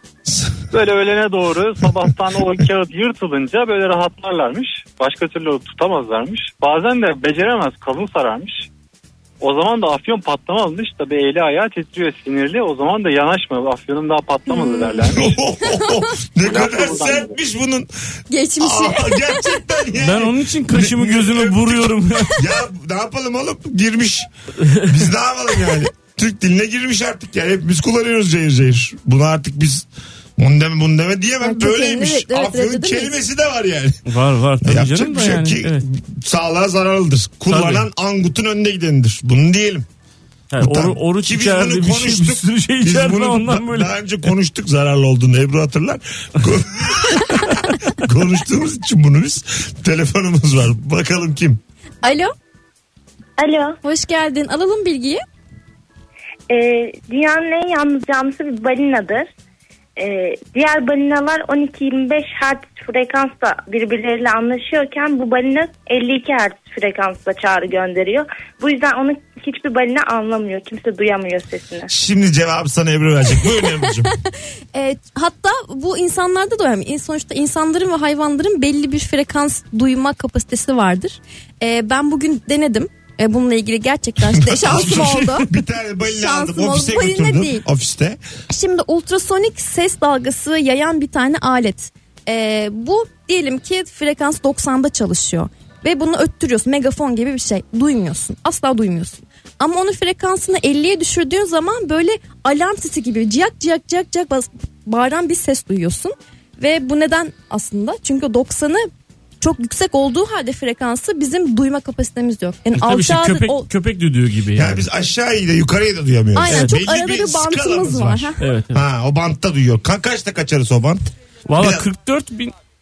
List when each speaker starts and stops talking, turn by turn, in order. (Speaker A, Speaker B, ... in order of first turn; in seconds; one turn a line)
Speaker A: 0.3-0.6
Speaker B: 0.7-8.7
Speaker B: 9.4-15.3
Speaker C: 14.5-15.1
Speaker A: 15.1-17.9
Speaker C: 15.7-16.0
Speaker B: 16.5-17.3
Speaker C: 18.3-19.6
Speaker A: 18.6-24.3
Speaker D: 20.0-22.4
Speaker D: 24.6-24.9
Speaker A: 24.9-29.9
Speaker A: 30.4-34.0
Speaker C: 31.4-33.2
Speaker D: 34.1-35.8
Speaker A: 34.6-39.8
Speaker D: 37.5-37.9
Speaker D: 40.5-43.9
Speaker A: 40.6-51.6
Speaker C: 52.0-52.3
Speaker E: 53.4-53.8
Speaker C: 53.8-55.2
Speaker E: 56.5-59.3
Speaker E: 60.0-71.9
Speaker A: 71.9-74.1
Speaker C: 73.8-74.1
Speaker C: 74.7-85.5
Speaker A: 84.3-88.2
Speaker C: 86.0-87.6
Speaker C: 88.5-108.9
Speaker C: 109.4-113.7
Speaker D: 112.8-114.8
Speaker A: 114.5-121.0
Speaker C: 116.3-118.4
Speaker D: 116.5-116.7
Speaker D: 118.4-118.8
Speaker D: 121.5-122.5
Speaker A: 121.6-121.9